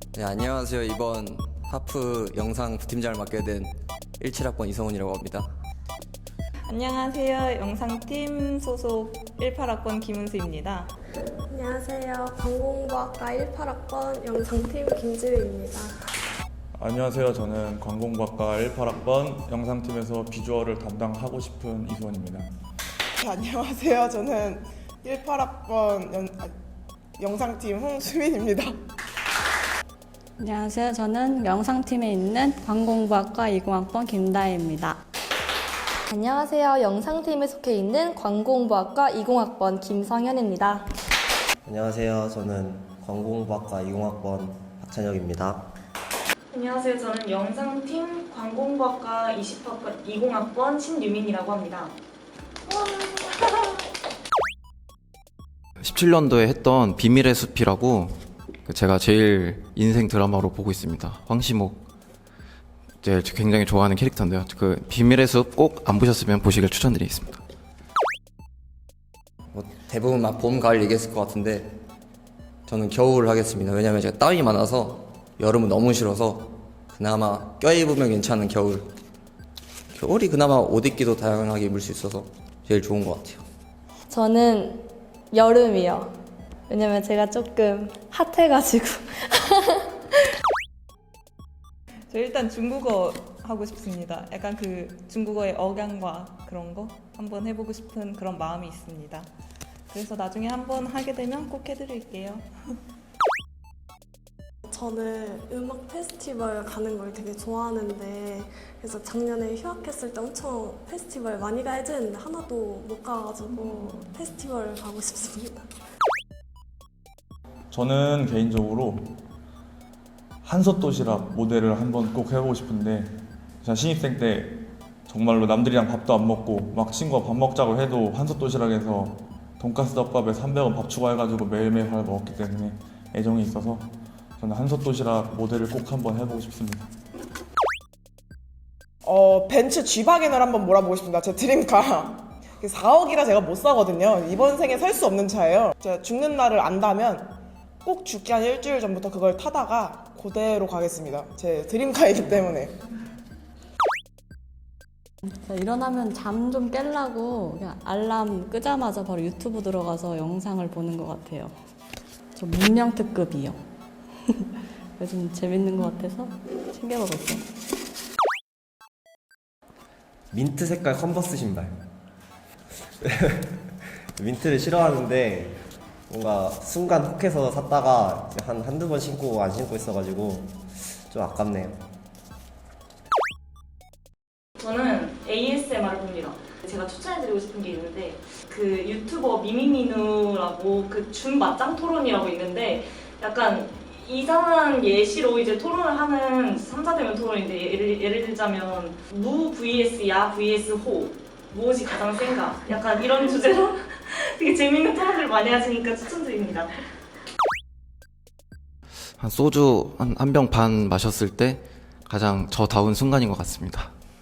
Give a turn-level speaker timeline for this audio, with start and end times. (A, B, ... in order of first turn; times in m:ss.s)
0:00.1-0:05.5 A
0:06.7-0:10.9 B
0:11.5-0:15.9 C
0:16.8-0:22.5 D
0:23.2-0:26.5 E
0:27.2-0:28.7 E
0:30.4-0:35.0 F
0:36.1-0:40.9 G
0:41.6-0:45.7 H
0:46.5-0:52.0 I
0:52.7-0:53.4 I
0:55.8-1:01.8 J
1:03.0-1:07.4 J
1:09.5-1:11.7 A
1:12.7-1:18.9 A
1:19.9-1:23.4 A
1:24.1-1:26.1 G
1:26.7-1:29.9 G
1:32.1-1:39.3 B
1:39.9-1:42.5 B
1:44.7-1:55.7 C
1:57.7-1:59.2 D
2:00.4-2:03.1 D
2:03.6-2:16.9 D
2:19.0-2:32.7 E
2:35.4-2:41.6 F
2:42.4-2:43.6 F
2:44.3-2:47.4 F
2:50.3-2:51.8 H
2:53.0-2:53.5 H
2:54.2-3:01.8 H
3:04.6-3:26.7 I
3:29.2-3:33.9 J